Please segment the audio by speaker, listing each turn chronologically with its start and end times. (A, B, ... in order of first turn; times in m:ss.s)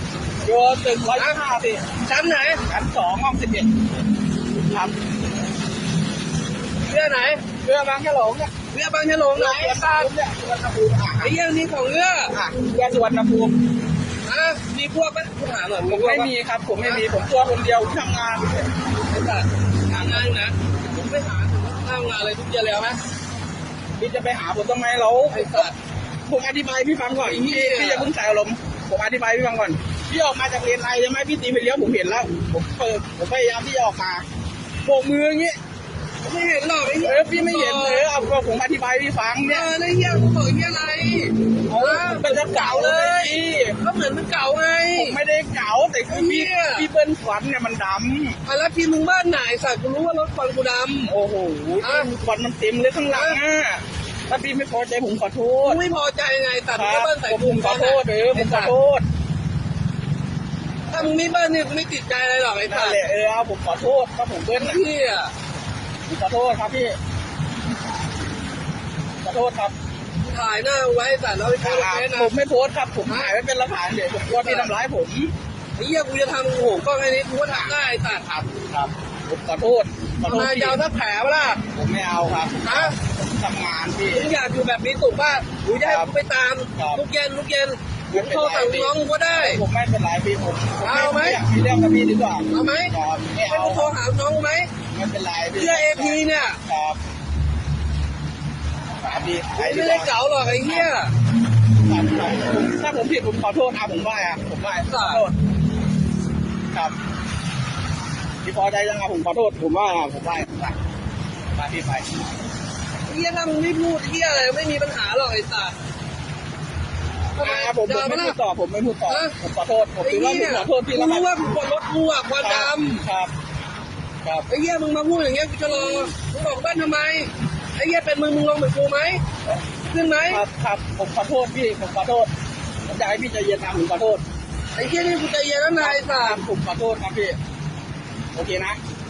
0:00.4-0:01.9 A
0:01.9-0:02.6 B
0:02.6-0:03.7 A
0:04.6-0:04.9 A
0:06.9-0:07.4 B
0:07.6-0:08.5 A
0:08.7-0:10.1 B
0:09.3-0:11.3 A
0:11.2-0:12.3 B
0:12.3-0:13.5 A
0:14.2-0:16.3 B
0:15.8-0:18.7 A
0:19.1-0:23.0 B
0:19.9-0:20.3 A
0:24.0-0:25.7 A
0:25.3-0:25.7 B
0:26.2-0:34.2 A
0:27.2-0:28.1 B
0:34.8-0:35.6 A
0:36.2-0:38.1 B
0:37.0-0:39.7 A
0:39.4-0:45.2 B
0:41.7-0:43.8 A
0:44.9-0:48.4 A
0:46.1-0:46.9 B
0:48.4-0:51.1 B
0:51.0-0:55.8 A
0:51.8-0:52.1 B
0:53.1-0:53.4 B
0:55.6-0:58.7 B
0:56.7-0:59.0 A
1:00.9-1:03.0 B
1:02.7-1:04.8 A
1:04.6-1:05.3 B
1:06.0-1:07.0 A
1:09.2-1:09.7 A
1:10.2-1:12.3 B
1:11.6-1:15.3 A
1:13.1-1:13.3 B
1:14.3-1:14.7 B
1:15.8-1:18.5 B
1:18.5-1:20.8 A
1:20.2-1:21.6 B
1:21.7-1:24.3 A
1:22.6-1:23.0 B
1:24.1-1:29.6 B
1:25.8-1:26.1 A
1:26.7-1:27.0 A
1:28.1-1:33.9 A
1:30.8-1:31.4 B
1:32.5-1:32.9 B
1:33.5-1:34.7 B
1:34.9-1:37.0 A
1:35.5-1:36.6 B
1:39.0-1:40.9 A
1:39.5-1:41.1 B
1:41.8-1:45.3 A
1:44.9-1:45.2 B
1:48.4-1:50.8 A
1:51.5-1:52.1 A
1:53.0-1:55.7 B
1:57.4-1:58.4 B
1:57.4-2:01.3 A
1:59.1-1:59.3 B
2:00.0-2:03.0 B
2:02.4-2:03.3 A
2:04.5-2:09.2 B
2:05.7-2:06.1 A
2:09.9-2:10.4 B
2:10.3-2:12.3 A
2:12.8-2:14.2 A
2:14.7-2:16.4 B
2:15.8-2:17.4 A
2:18.3-2:18.8 A